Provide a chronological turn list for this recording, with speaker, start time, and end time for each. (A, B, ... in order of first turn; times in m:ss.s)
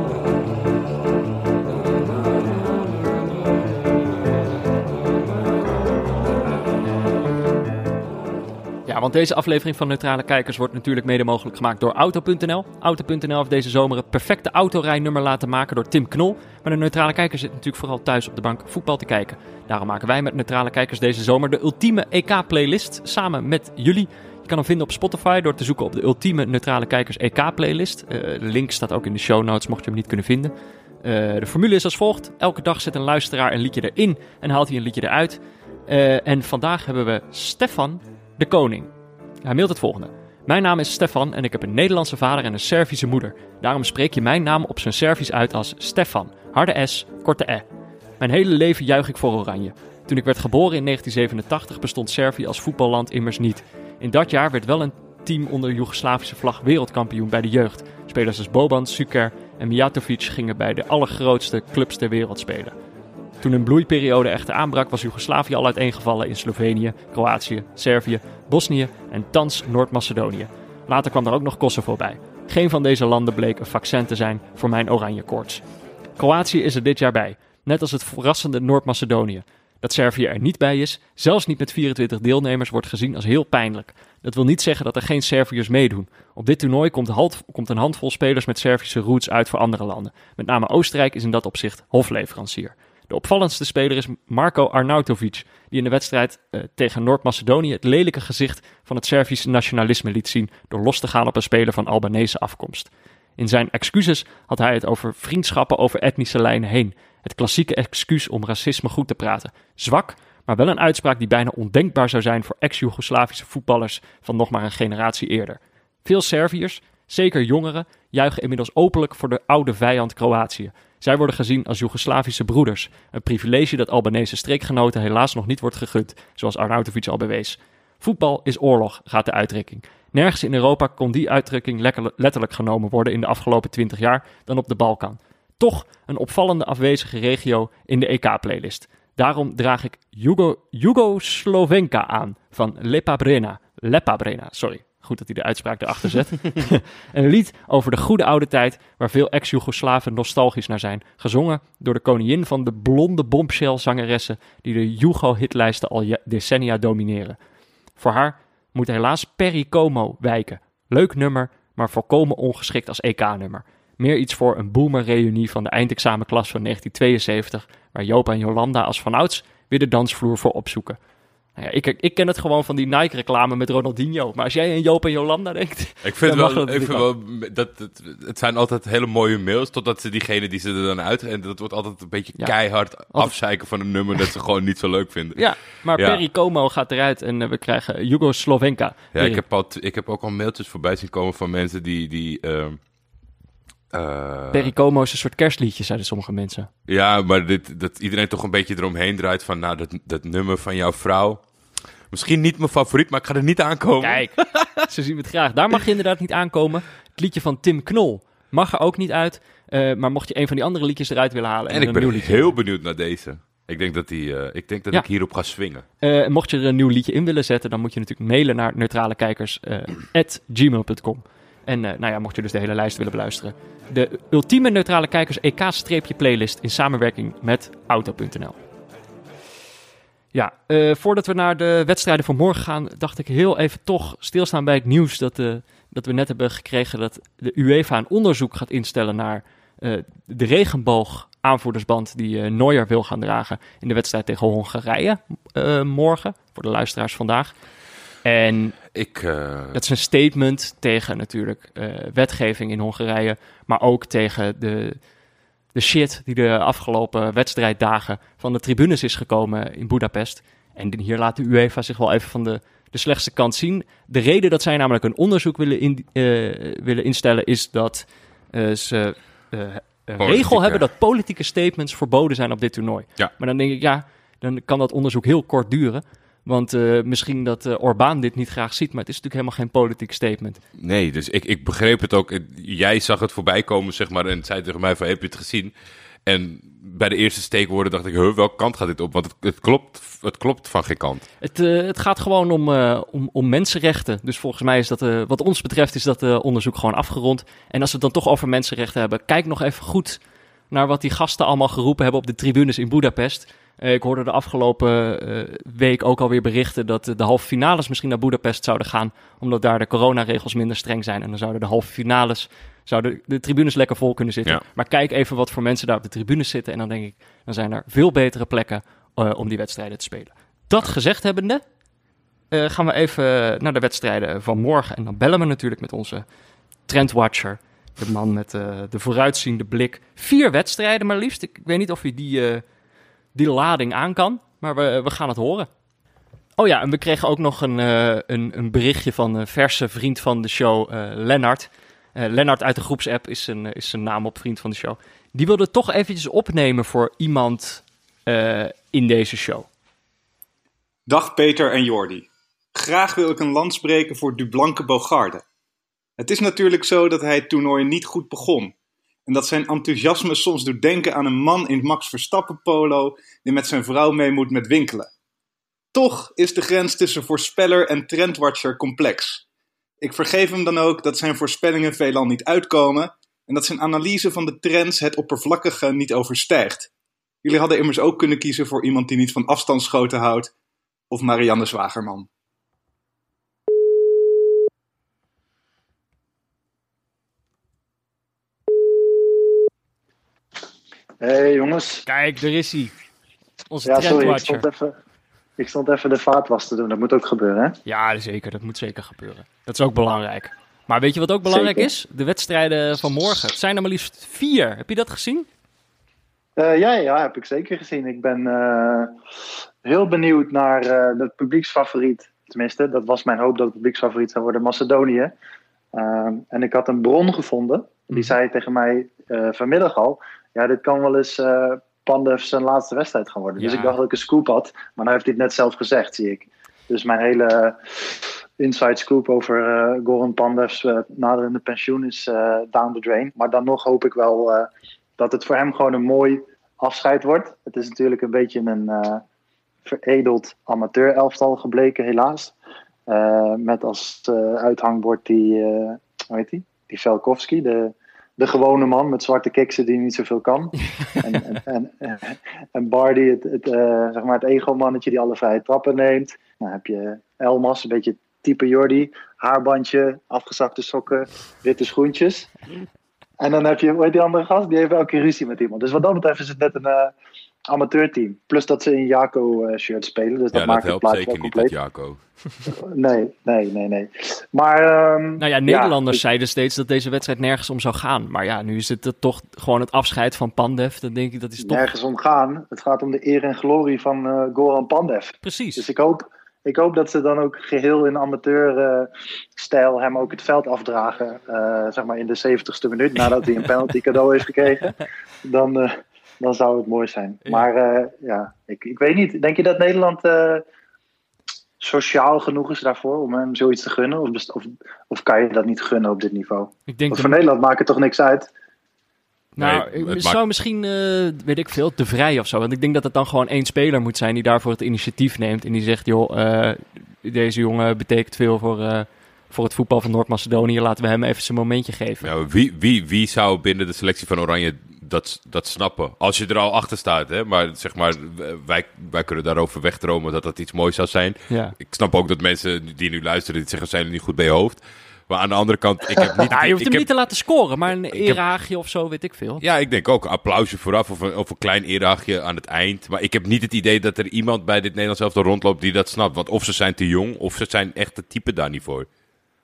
0:08.9-0:38.9 A
0:39.4-0:47.6 A
0:48.2-1:02.8 A
1:03.4-1:15.6 A
1:16.2-2:37.4 A
2:38.0-2:51.0 A
2:51.6-2:57.1 A
2:56.0-3:06.2 B
3:05.4-3:09.4 A
3:09.1-3:12.8 B
3:13.9-3:14.7 B
3:14.5-3:16.7 A
3:16.9-3:21.4 B
3:22.1-3:24.8 B
3:24.0-3:32.6 A
3:31.7-3:35.8 B
3:36.0-3:48.6 A
3:50.3-4:07.5 A
4:08.2-4:08.8 A
4:08.9-4:09.8 B
4:09.7-4:15.0 A
4:15.7-4:40.6 A
4:30.2-4:30.8 B
4:40.8-4:45.7 B
4:46.3-4:51.2 B
4:51.4-5:00.2 A
5:00.7-5:21.6 A
5:22.5-5:26.3 A
5:26.9-5:32.6 A
5:33.4-5:35.7 A
5:36.6-5:49.7 A
5:51.1-5:55.4 C
5:56.2-5:58.8 C
5:59.3-6:05.1 C
6:05.9-6:09.4 C
6:10.0-6:16.9 C
6:17.4-6:20.5 C
6:21.1-6:22.3 C
6:31.2-6:32.0 D
6:32.1-6:32.9 A
6:33.7-6:34.6 A
6:33.8-6:35.0 D
6:35.6-6:37.8 D
6:37.9-6:45.5 A
6:41.4-6:41.9 D
6:46.6-6:49.2 D
6:49.8-6:55.3 D
6:55.9-7:19.2 D
7:03.6-7:04.0 A
7:19.8-7:22.6 D
7:23.1-7:42.5 D
7:31.0-7:31.6 A
7:43.4-7:47.1 D
7:47.7-7:51.7 D
7:50.5-7:52.2 B
7:52.7-7:56.2 D
7:55.4-8:01.9 A
8:01.6-8:20.6 D
8:05.4-8:05.9 A
8:21.8-8:28.5 D
8:26.9-8:27.4 A
8:29.6-8:42.3 A
8:29.6-8:30.4 B
8:42.2-8:57.0 B
8:51.5-8:51.8 A
8:56.5-8:59.6 A
8:58.1-8:58.4 B
8:59.6-9:09.1 B